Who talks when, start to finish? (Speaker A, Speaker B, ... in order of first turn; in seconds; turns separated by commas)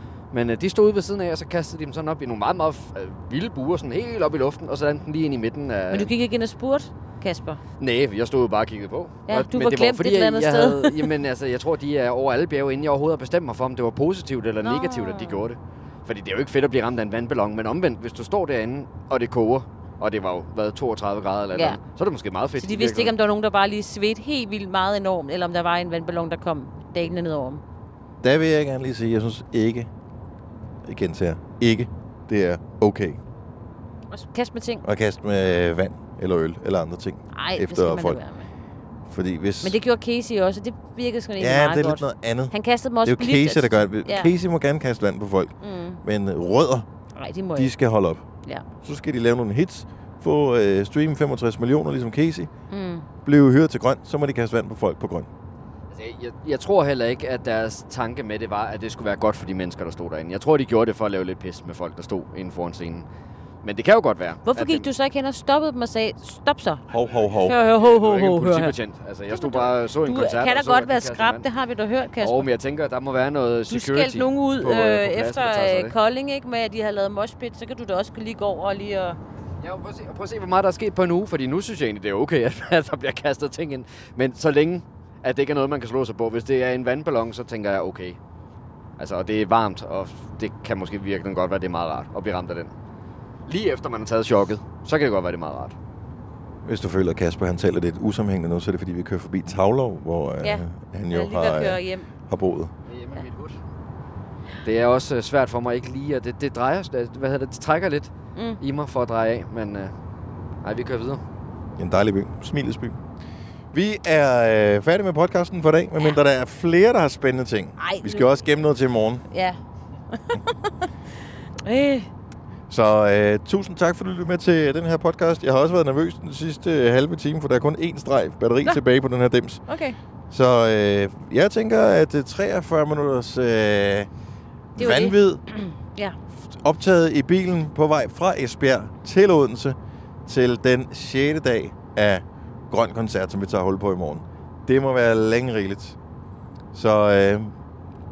Speaker A: 0.3-6.1, Speaker B: 5.9-7.6, Speaker A: 7.8-23.1, Speaker B: 9.3-11.1, Speaker B: 14.6-15.4, Speaker B: 22.6-27.6, Speaker C: 28.2-29.9, Speaker C: 30.8-33.2, Speaker B: 34.1-34.8, Speaker C: 34.8-38.2, Speaker B: 37.3-38.5, Speaker C: 39.1-39.8, Speaker B: 39.6-44.3, Speaker C: 41.4-46.9, Speaker B: 45.6-46.0, Speaker B: 47.2-47.7, Speaker C: 47.5-48.2, Speaker C: 48.8-52.5, Speaker B: 52.7-53.1, Speaker C: 53.2-55.3, Speaker A: 55.9-63.1, Speaker A: 63.6-64.9, Speaker B: 64.5-66.8, Speaker C: 66.9-67.6, Speaker B: 67.5-68.8, Speaker A: 67.7-71.5, Speaker B: 69.3-72.5, Speaker A: 72.2-75.9, Speaker B: 73.7-79.2, Speaker A: 79.6-88.2, Speaker A: 89.0-92.7, Speaker A: 93.5-95.8, Speaker C: 96.7-102.7, Speaker B: 100.4-102.1, Speaker A: 102.9-103.6, Speaker A: 104.6-109.9, Speaker A: 110.6-111.2, Speaker C: 111.8-113.0, Speaker C: 113.7-119.2, Speaker B: 117.8-118.4, Speaker B: 119.3-119.6, Speaker B: 120.1-120.7, Speaker B: 121.7-122.1, Speaker C: 122.7-129.6, Speaker B: 129.7-130.0, Speaker C: 130.3-134.1, Speaker C: 134.8-135.4, Speaker B: 134.8-136.2, Speaker C: 136.5-146.0, Speaker C: 146.7-147.5